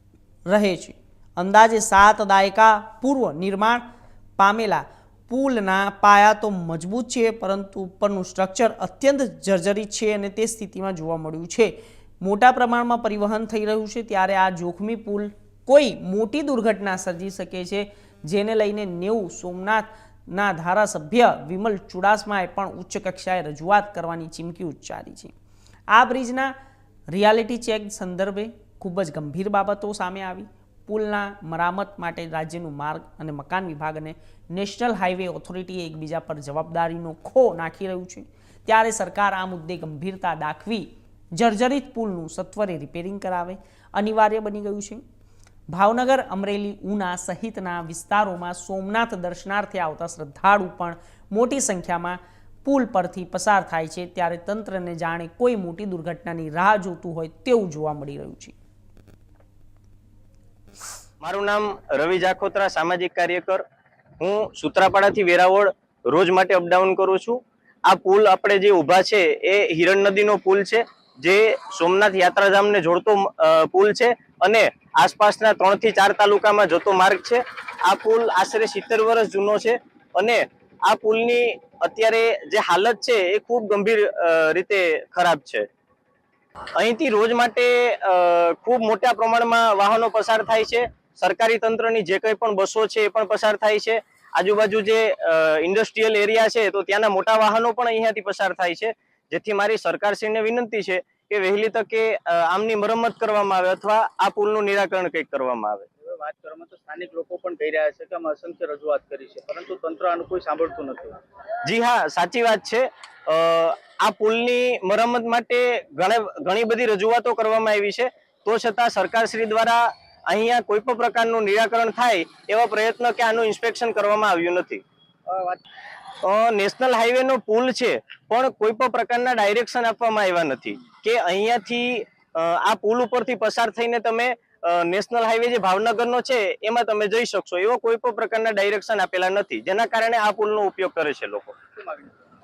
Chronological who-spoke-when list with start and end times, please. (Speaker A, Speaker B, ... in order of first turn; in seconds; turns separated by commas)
Speaker A: 0.5-3.8, Speaker A: 4.4-25.3, Speaker A: 25.9-26.5, Speaker A: 27.1-45.0, Speaker A: 45.7-58.6, Speaker B: 61.2-63.6, Speaker B: 64.2-85.7, Speaker B: 86.8-105.9, Speaker C: 106.0-111.2, Speaker B: 111.7-124.8, Speaker C: 125.3-125.6, Speaker B: 126.2-141.6, Speaker C: 141.8-142.1